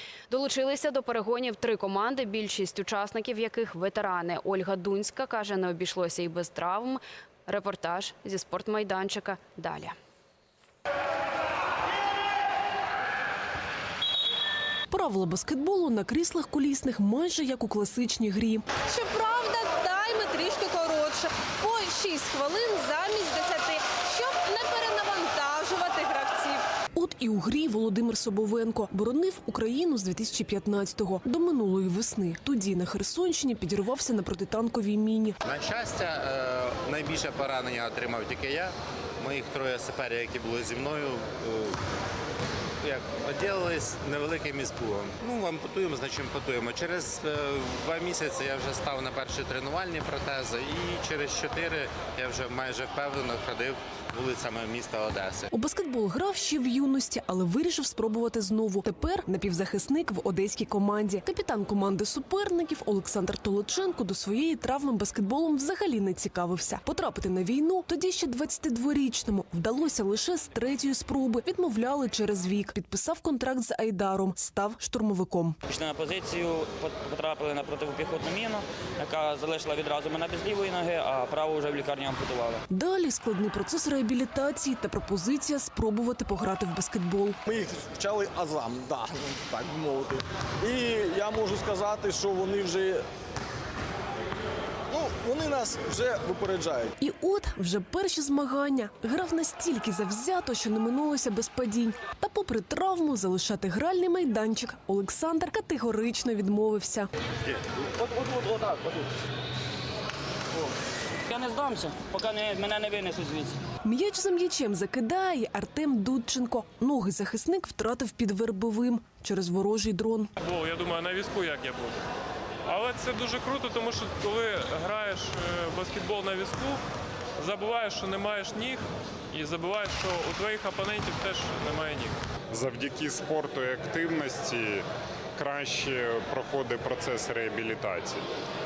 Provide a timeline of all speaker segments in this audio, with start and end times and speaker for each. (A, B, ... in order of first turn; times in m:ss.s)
0:00.3-0:10.0 A
0:14.9-0:18.7 B
0:18.8-0:26.6 C
0:26.9-0:35.4 B
0:35.4-0:41.8 D
0:42.8-0:55.5 D
0:55.5-1:15.6 B
1:15.7-1:22.6 E
1:22.7-1:27.4 B
1:27.5-1:33.0 F
1:34.9-1:36.9 F
1:37.0-1:47.1 B
1:47.5-1:49.0 E
1:51.3-1:53.6 E
1:53.8-2:00.3 B
2:00.4-2:02.0 G
2:02.7-2:06.8 G
2:07.4-2:12.2 G
2:12.5-2:18.2 H